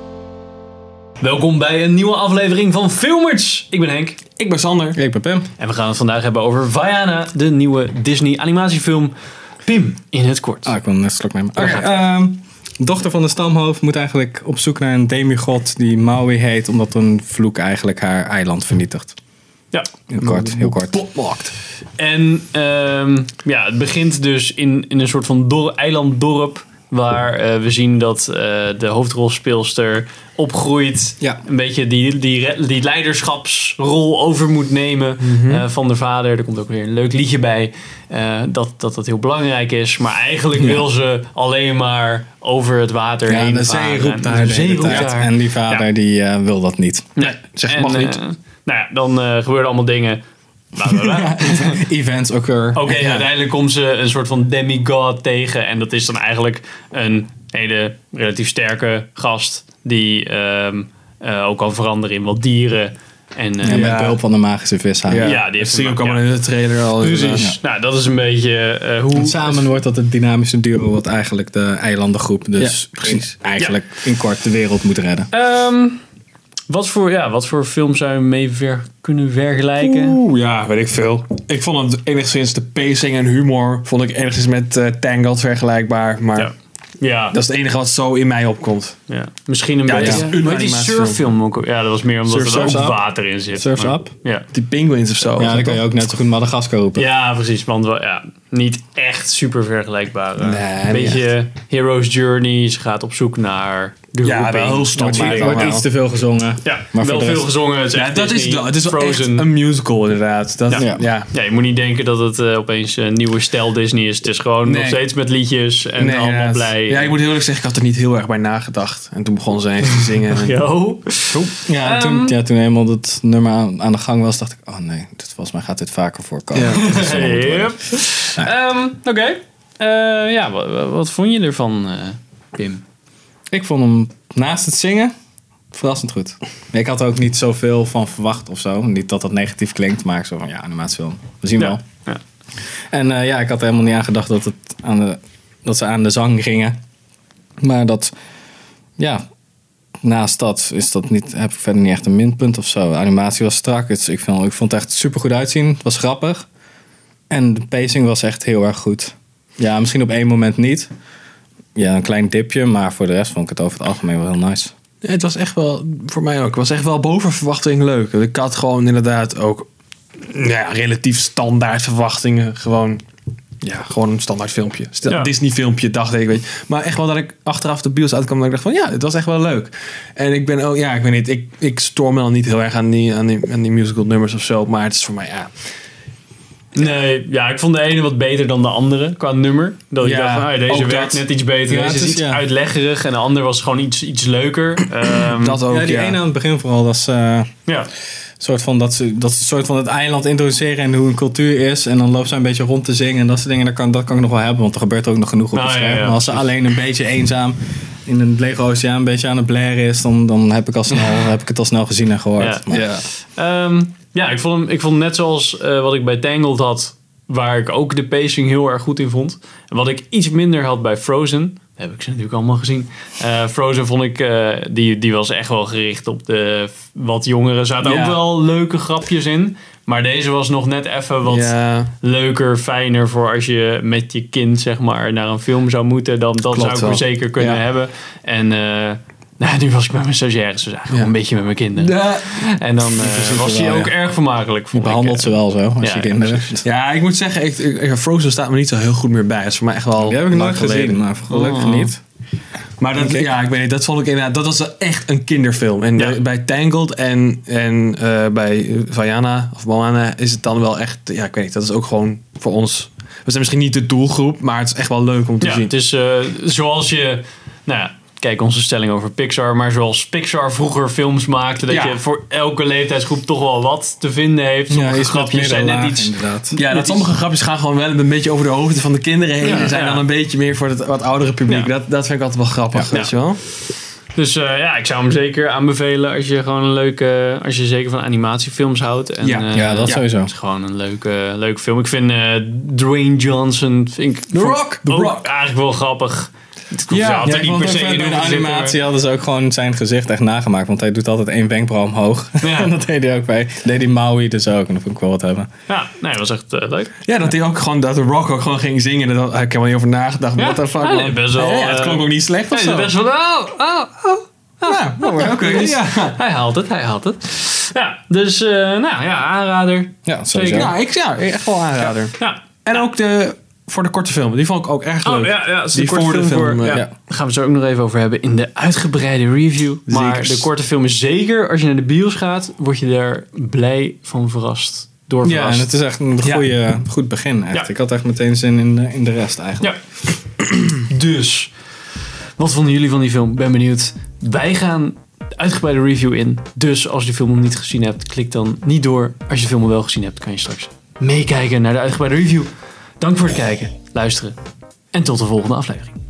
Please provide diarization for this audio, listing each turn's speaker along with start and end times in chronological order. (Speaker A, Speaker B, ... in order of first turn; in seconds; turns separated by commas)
Speaker A: 1.2-4.2, Speaker B: 4.4-5.0, Speaker C: 4.9-5.5, Speaker A: 5.6-9.1, Speaker A: 9.6-10.7, Speaker C: 10.6-19.1, Speaker A: 11.6-11.8, Speaker C: 20.1-21.0, Speaker B: 20.2-21.5, Speaker A: 22.0-45.9, Speaker B: 35.2-35.6, Speaker C: 43.3-47.1, Speaker A: 47.2-50.2, Speaker B: 47.2-48.2, Speaker A: 50.7-51.8, Speaker C: 50.8-52.9, Speaker A: 52.7-64.0, Speaker B: 52.9-53.3, Speaker C: 63.6-65.3, Speaker B: 63.6-64.2, Speaker B: 65.1-67.5, Speaker A: 65.2-66.2, Speaker A: 67.0-69.6, Speaker C: 69.1-75.3, Speaker B: 72.6-73.3, Speaker A: 75.3-76.0, Speaker A: 76.7-80.2, Speaker B: 79.8-86.5, Speaker A: 86.3-87.4, Speaker B: 87.3-89.0, Speaker A: 89.1-94.5, Speaker B: 89.9-91.2, Speaker C: 92.2-93.0, Speaker C: 93.5-94.1, Speaker B: 94.5-95.9, Speaker C: 95.3-97.0, Speaker A: 97.0-105.7, Speaker B: 100.4-101.3, Speaker B: 104.2-105.8, Speaker C: 105.0-107.5, Speaker A: 106.6-109.5, Speaker B: 107.9-111.3, Speaker A: 110.7-117.2, Speaker C: 110.7-111.0, Speaker B: 114.7-115.0, Speaker B: 116.0-120.6, Speaker A: 120.3-122.3, Speaker C: 121.7-127.8, Speaker B: 126.5-126.8, Speaker A: 126.7-132.8, Speaker C: 133.5-135.1, Speaker C: 135.7-141.8, Speaker A: 141.6-142.2, Speaker C: 142.9-146.7, Speaker C: 147.6-148.1, Speaker C: 150.0-156.4, Speaker C: 157.3-160.9, Speaker C: 161.7-164.7, Speaker B: 165.0-169.7, Speaker B: 170.2-173.0, Speaker B: 173.6-185.5, Speaker A: 186.7-195.6, Speaker B: 190.0-191.2, Speaker C: 191.7-192.4, Speaker B: 195.2-196.2, Speaker C: 195.7-197.5, Speaker C: 198.4-212.9, Speaker A: 205.5-206.4, Speaker A: 212.4-246.5, Speaker B: 212.7-213.1, Speaker B: 227.8-228.2, Speaker B: 231.2-231.9, Speaker B: 236.5-237.6, Speaker B: 241.8-242.5, Speaker C: 243.0-243.9, Speaker C: 244.7-246.6, Speaker B: 246.6-251.0, Speaker C: 250.0-252.0, Speaker A: 251.3-251.9, Speaker B: 252.8-265.7, Speaker C: 252.9-253.3, Speaker A: 265.4-277.1, Speaker B: 271.7-272.0, Speaker C: 274.7-276.6, Speaker B: 276.6-283.4, Speaker A: 279.4-280.0, Speaker A: 284.1-298.8, Speaker B: 289.2-290.0, Speaker C: 289.5-290.3, Speaker B: 294.3-295.2, Speaker B: 296.9-298.0, Speaker C: 297.2-305.5, Speaker A: 302.4-302.7, Speaker A: 305.7-306.9, Speaker B: 307.1-312.9, Speaker A: 310.4-320.7, Speaker B: 314.6-316.2, Speaker C: 320.1-320.7, Speaker B: 320.5-326.8, Speaker A: 322.1-322.5, Speaker A: 325.0-335.7, Speaker B: 329.9-330.5, Speaker C: 335.2-339.7, Speaker A: 340.4-341.5, Speaker A: 342.4-354.4, Speaker A: 354.9-355.9